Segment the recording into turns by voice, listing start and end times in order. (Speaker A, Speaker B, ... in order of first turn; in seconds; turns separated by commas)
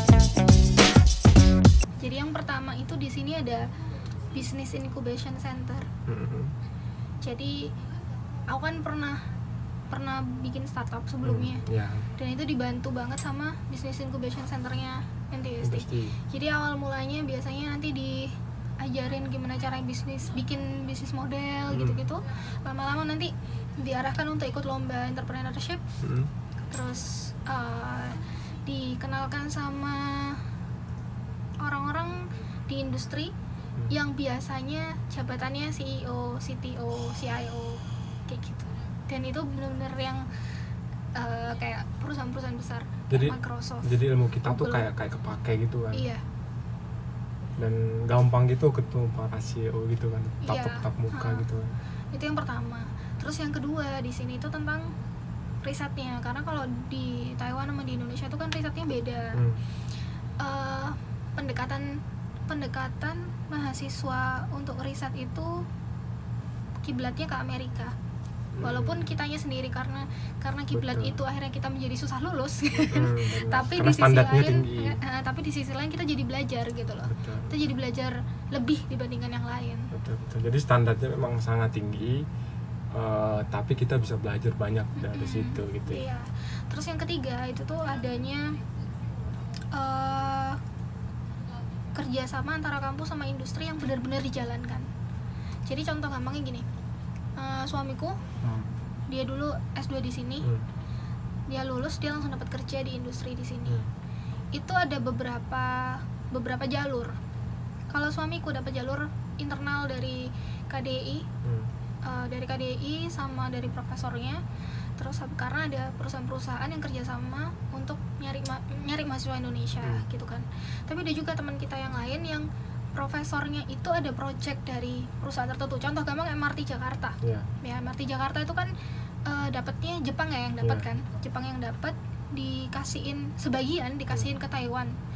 Speaker A: 2.0-3.6, Speaker A: 4.3-5.9, Speaker B: 6.0-6.5, Speaker A: 7.2-7.7, Speaker A: 8.5-9.3, Speaker A: 9.9-11.6, Speaker B: 11.2-12.1, Speaker A: 12.2-25.8, Speaker B: 15.6-16.2, Speaker B: 21.7-22.1, Speaker B: 26.0-26.3, Speaker A: 26.7-30.5, Speaker A: 31.6-33.3, Speaker A: 33.9-40.2, Speaker A: 41.1-43.9, Speaker B: 43.1-46.1, Speaker A: 44.4-44.9, Speaker A: 45.9-46.2, Speaker B: 47.6-51.8, Speaker A: 50.4-51.5, Speaker A: 52.1-54.9, Speaker A: 55.6-59.4, Speaker B: 59.3-59.6, Speaker A: 60.4-65.7, Speaker A: 66.8-67.9, Speaker B: 68.5-69.1, Speaker A: 68.6-79.9, Speaker B: 70.7-71.2, Speaker B: 72.7-75.0, Speaker B: 77.1-77.5, Speaker B: 79.9-82.2, Speaker B: 82.9-86.1, Speaker A: 85.0-88.6, Speaker A: 89.7-90.6, Speaker A: 91.9-94.9, Speaker A: 95.6-96.7, Speaker A: 97.3-98.2, Speaker B: 98.4-98.7, Speaker A: 99.1-100.5, Speaker A: 101.5-103.8, Speaker A: 104.5-107.2, Speaker A: 107.9-111.3, Speaker B: 111.4-111.7, Speaker A: 112.0-114.4, Speaker A: 115.0-128.7, Speaker B: 127.2-127.5, Speaker A: 129.2-135.0, Speaker B: 130.6-130.9